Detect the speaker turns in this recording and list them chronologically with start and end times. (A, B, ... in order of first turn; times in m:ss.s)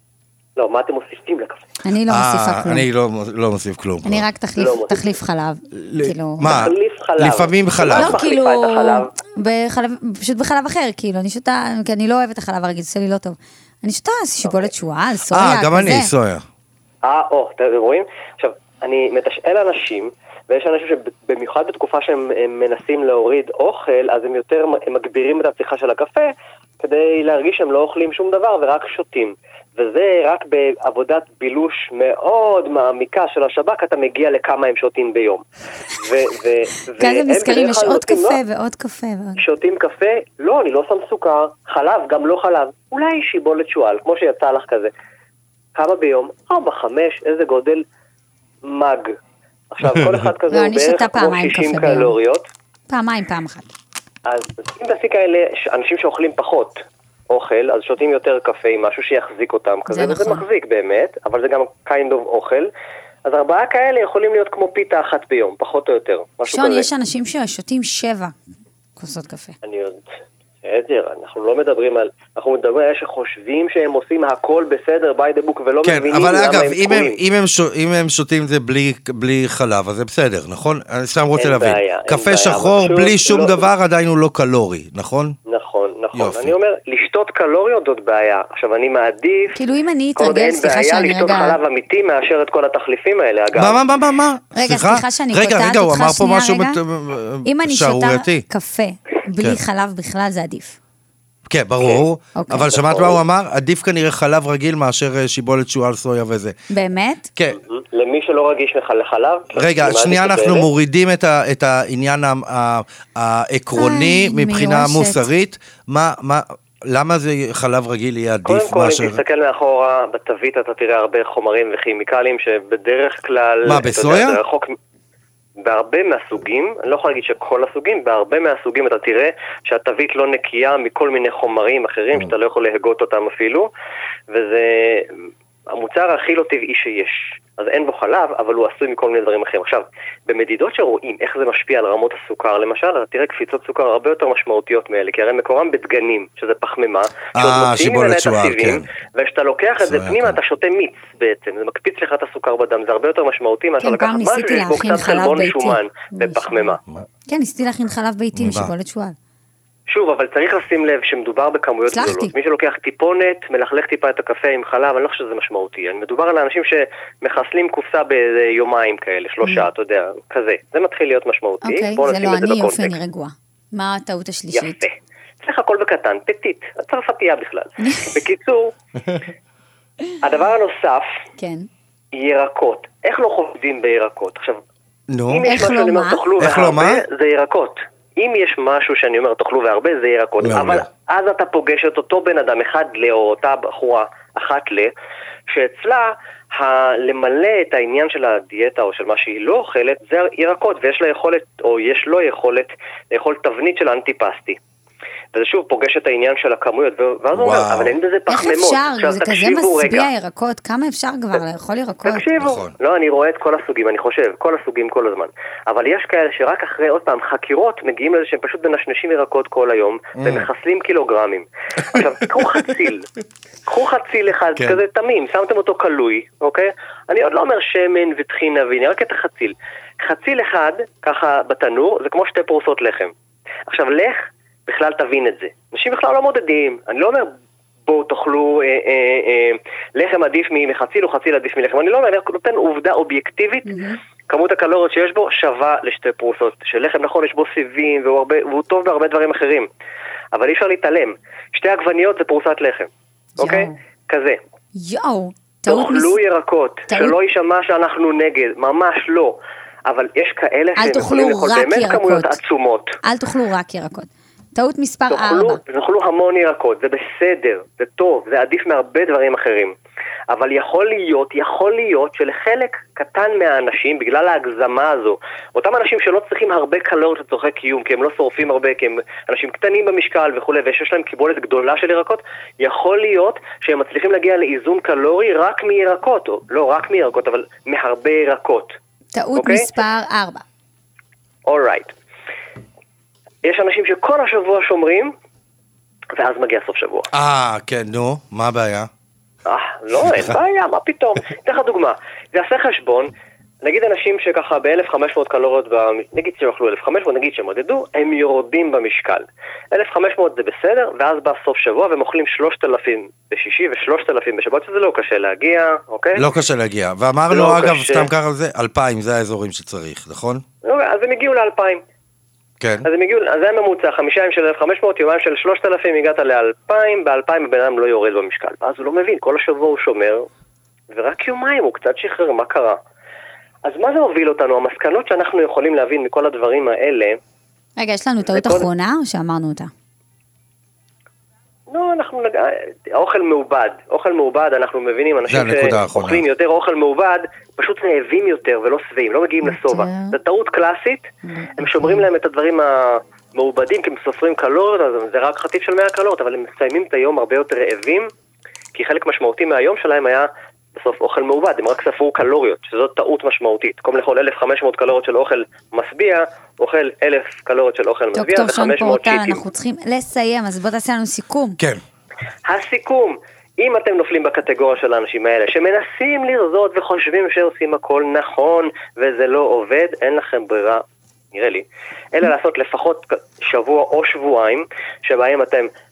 0:00.6-0:01.6 A
0:01.8-0:02.9 B
0:02.1-0:04.2 C
0:04.0-0:06.7 B
0:04.6-0:05.0 A
0:05.7-0:08.2 C
0:06.4-0:09.1 A
0:07.9-0:16.1 B
0:15.3-0:16.4 C
0:17.0-0:26.3 A
0:26.8-0:38.4 A
0:37.0-0:39.4 B
0:39.4-0:44.9 A
0:45.8-0:47.8 A
0:48.7-0:49.1 A
0:49.7-0:52.5 A
0:50.5-0:52.2 B
0:52.9-0:53.7 B
0:54.3-0:56.8 A
0:57.3-1:02.7 A
0:59.9-1:00.4 B
1:03.3-1:06.9 A
1:06.5-1:08.3 B
1:09.0-1:09.6 B
1:09.6-1:10.0 A
1:10.6-1:17.2 A
1:15.8-1:25.4 C
1:21.4-1:23.6 A
1:25.5-1:29.6 A
1:26.2-1:26.5 C
1:29.6-1:31.6 B
1:30.2-1:33.8 A
1:33.6-1:38.4 C
1:34.6-1:36.8 B
1:37.5-1:40.8 B
1:41.5-1:46.5 C
1:42.4-1:42.8 B
1:42.8-1:43.2 A
1:46.7-1:47.3 B
1:47.7-1:50.7 A
1:49.6-1:59.2 C
1:53.8-1:55.3 B
1:58.5-2:04.8 A
2:03.7-2:04.4 C
2:05.6-2:13.7 A
2:14.3-2:15.1 A
2:15.7-2:36.8 A
2:27.4-2:28.9 C
2:29.8-2:30.4 C
2:33.8-2:36.8 B
2:37.3-2:39.2 B
2:38.4-2:38.7 C
2:39.9-2:53.0 A
2:41.9-2:42.3 B
2:51.6-2:54.8 B
2:54.5-2:58.7 A
2:57.8-2:58.1 B
3:00.2-3:01.1 A
3:01.4-3:01.7 B
3:02.2-3:04.6 A
3:05.1-3:05.4 C
3:05.3-3:14.9 A
3:05.4-3:06.2 B
3:06.4-3:07.0 C
3:10.4-3:10.9 C
3:15.5-3:24.6 A
3:25.3-3:30.1 A
3:27.3-3:28.0 C
3:28.3-3:32.2 B
3:32.0-3:43.1 A
3:32.4-3:32.7 C
3:40.2-3:40.5 C
3:43.7-3:53.1 A
3:53.7-3:57.3 A
3:57.9-4:03.7 A
4:03.7-4:04.0 B
4:04.3-4:09.7 A
4:10.4-4:14.4 A
4:13.4-4:13.8 B
4:14.8-4:16.2 B
4:15.7-4:23.0 A
4:16.9-4:17.2 B
4:20.8-4:22.4 B
4:23.0-4:25.6 B
4:25.1-4:29.7 A
4:30.3-4:48.7 A
4:49.1-4:50.4 B
4:49.4-4:49.7 A
4:51.5-4:51.9 A
4:53.4-4:55.1 A
4:56.2-4:57.1 A
4:57.1-4:58.9 C
4:59.5-5:03.1 A
5:03.6-5:16.2 A
5:16.2-5:20.4 C
5:17.3-5:18.1 A
5:20.7-5:21.8 A
5:22.6-5:22.9 C
5:22.8-5:30.2 A
5:30.9-5:32.8 A
5:33.6-5:37.2 A
5:37.8-5:39.7 B
5:38.3-5:38.7 A
5:41.7-5:51.1 A
5:45.3-5:46.2 C
5:49.4-5:50.2 B
5:51.3-5:52.0 B
5:51.6-5:58.1 A
5:58.8-6:09.4 A
6:08.1-6:11.6 B
6:12.5-6:25.7 A